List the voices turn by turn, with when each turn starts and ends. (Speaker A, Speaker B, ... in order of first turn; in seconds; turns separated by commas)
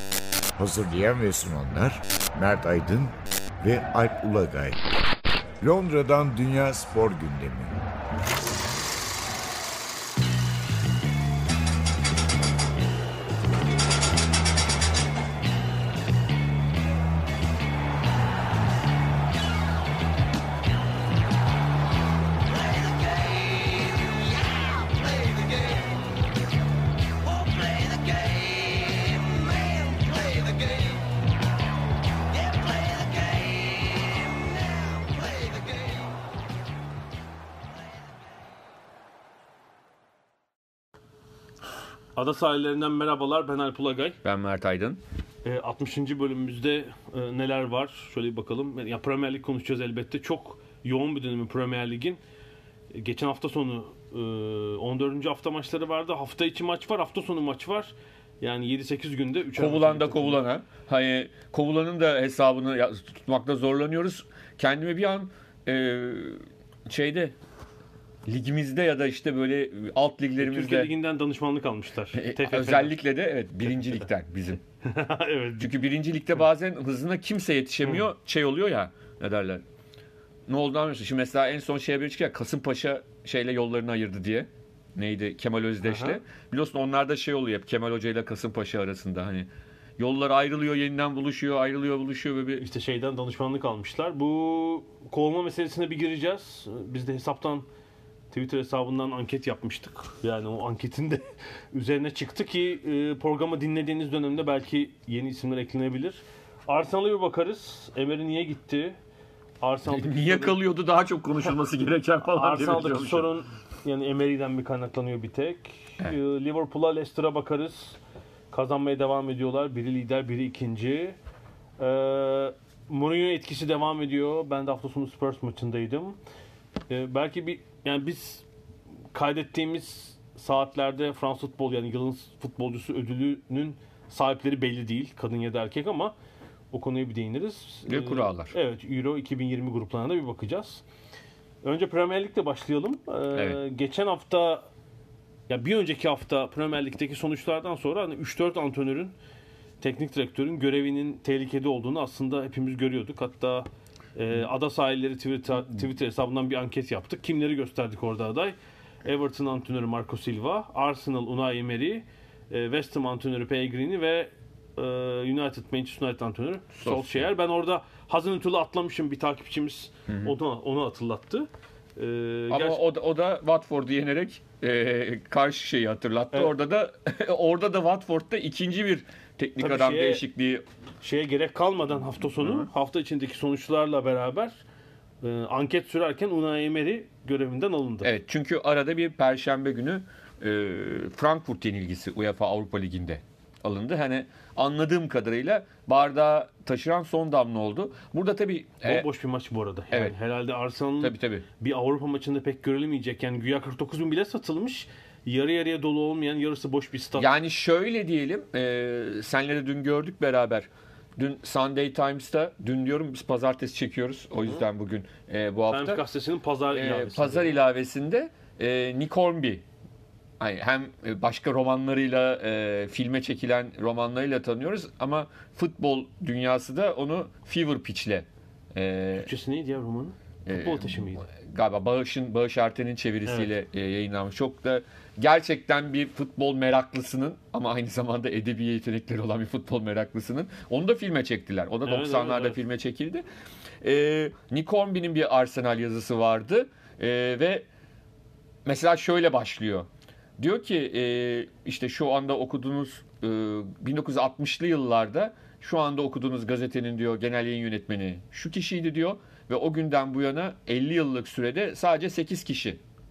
Speaker A: 0.6-4.8, Speaker A: 5.6-7.8, Speaker B: 42.1-44.2, Speaker C: 44.2-45.0, Speaker B: 45.4-52.2, Speaker B: 52.9-60.4, Speaker C: 59.5-67.3, Speaker C: 68.2-70.9, Speaker B: 70.4-73.0, Speaker C: 72.1-74.6, Speaker B: 74.8-75.7, Speaker C: 75.6-79.6, Speaker C: 80.5-92.6, Speaker B: 85.8-86.2, Speaker B: 92.6-97.7, Speaker B: 98.3-109.0, Speaker B: 109.6-110.6, Speaker C: 109.8-113.3, Speaker B: 112.3-118.0, Speaker B: 118.5-121.2, Speaker B: 121.8-126.2, Speaker B: 126.9-128.4, Speaker B: 129.1-136.1, Speaker B: 136.7-140.8, Speaker C: 137.9-138.5, Speaker B: 141.6-144.7, Speaker B: 145.5-149.1, Speaker B: 149.8-172.8, Speaker C: 166.8-167.3, Speaker C: 170.1-170.3, Speaker C: 172.5-180.6, Speaker B: 179.6-180.2, Speaker B: 181.0-184.6, Speaker B: 185.2-188.1, Speaker C: 188.0-199.1, Speaker B: 198.8-207.3, Speaker C: 201.0-201.4, Speaker C: 207.2-216.0, Speaker B: 215.7-217.5, Speaker C: 216.7-219.6, Speaker C: 220.4-229.3, Speaker B: 229.1-231.3, Speaker C: 230.4-243.2, Speaker B: 241.8-242.6, Speaker C: 243.8-247.7, Speaker C: 248.6-249.9, Speaker C: 250.4-262.8